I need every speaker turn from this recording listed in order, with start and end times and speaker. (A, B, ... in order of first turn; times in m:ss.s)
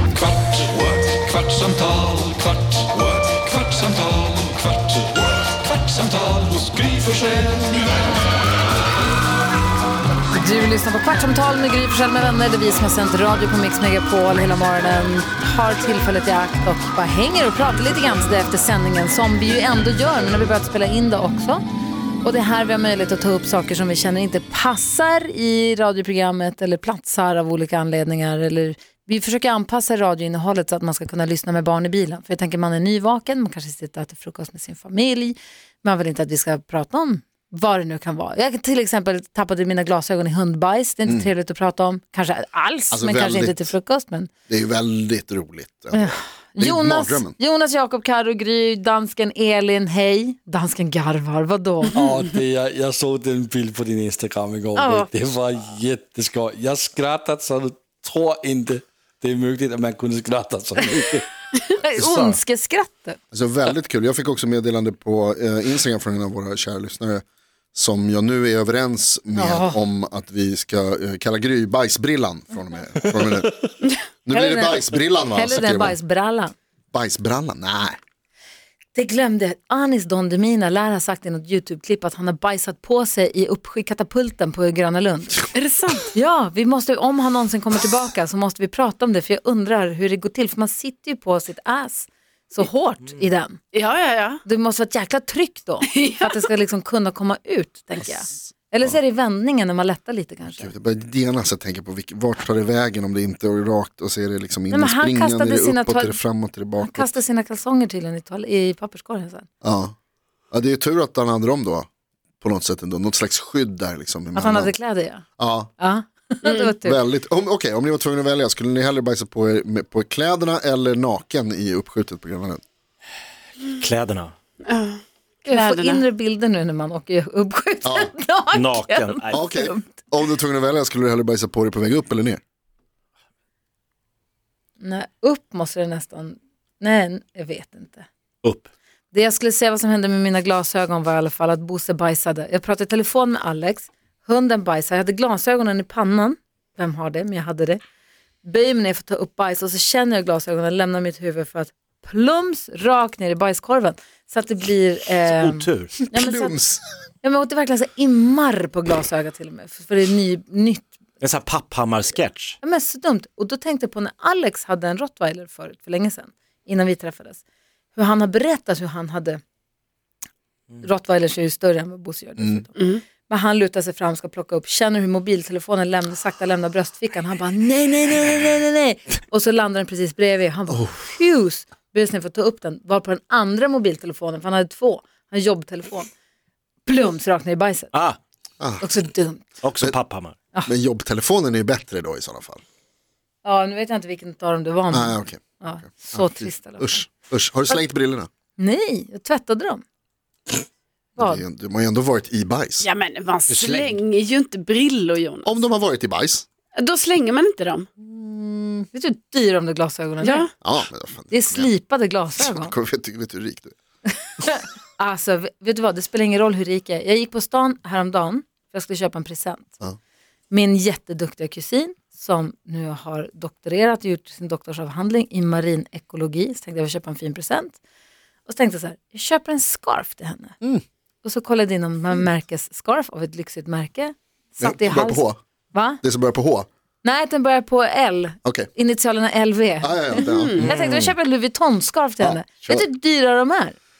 0:00.2-0:08.0 A
0:00.2-0:00.6 B
0:04.2-0:04.9 B
0:06.3-0:07.8 B
0:10.3-0:21.6 C
0:22.2-0:44.3 C
0:42.9-0:43.7 D
0:44.5-0:47.4 D
0:45.9-0:52.0 C
0:51.9-1:01.2 B
0:54.8-0:55.0 E
1:01.8-1:03.2 C
1:02.0-1:02.4 D
1:03.3-1:13.5 D
1:09.3-1:09.8 C
1:14.2-1:16.0 D
1:14.3-1:16.5 C
1:16.9-1:18.0 D
1:18.9-1:25.5 C
1:25.5-1:26.1 E
1:26.1-1:33.6 C
1:33.7-1:34.4 E
1:34.4-1:40.7 C
1:35.9-1:36.4 E
1:38.0-1:38.3 D
1:40.5-1:47.1 D
1:44.7-1:46.2 C
1:46.8-1:49.5 C
1:49.6-1:49.9 D
1:50.5-1:51.9 D
1:52.4-1:54.8 D
1:54.3-1:55.2 C
1:55.4-1:55.7 D
1:55.8-1:57.0 C
1:56.8-2:02.6 D
2:03.8-2:04.3 F
2:04.6-2:06.0 E
2:05.5-2:10.1 C
2:07.8-2:08.1 D
2:08.5-2:09.4 F
2:09.3-2:12.4 D
2:14.8-2:18.1 C
2:18.4-2:18.7 F
2:19.1-2:27.8 C
2:28.4-2:36.6 C
2:35.2-2:35.9 F
2:36.1-2:36.8 D
2:37.2-2:40.9 C
2:41.2-2:42.6 F
2:42.6-2:47.4 C
2:47.9-2:49.4 C
2:50.8-3:06.1 C
2:52.8-2:53.0 E
3:00.7-3:01.0 D
3:06.8-3:07.9 C
3:07.9-3:08.2 F
3:08.6-3:08.8 D
3:08.8-3:09.4 C
3:09.6-3:10.4 F
3:10.6-3:12.6 D
3:13.4-3:17.0 C
3:14.9-3:18.3 D
3:18.6-3:19.8 C
3:21.2-3:21.4 C
3:21.2-3:22.9 D
3:22.8-3:25.6 E
3:23.5-3:23.9 F
3:25.4-3:26.4 D
3:26.8-3:27.9 E
3:28.0-3:30.5 C
3:30.2-3:30.5 E
3:30.6-3:31.7 D
3:31.3-3:32.7 C
3:32.4-3:33.7 D
3:34.4-3:39.8 C
3:40.5-3:47.8 C
3:48.4-3:50.5 C
3:51.2-3:56.0 C
3:54.6-3:55.4 D
3:56.0-3:56.7 D
3:57.0-4:03.8 C
3:59.8-4:00.8 D
4:00.2-4:00.6 E
4:00.6-4:01.1 F
4:02.2-4:02.8 D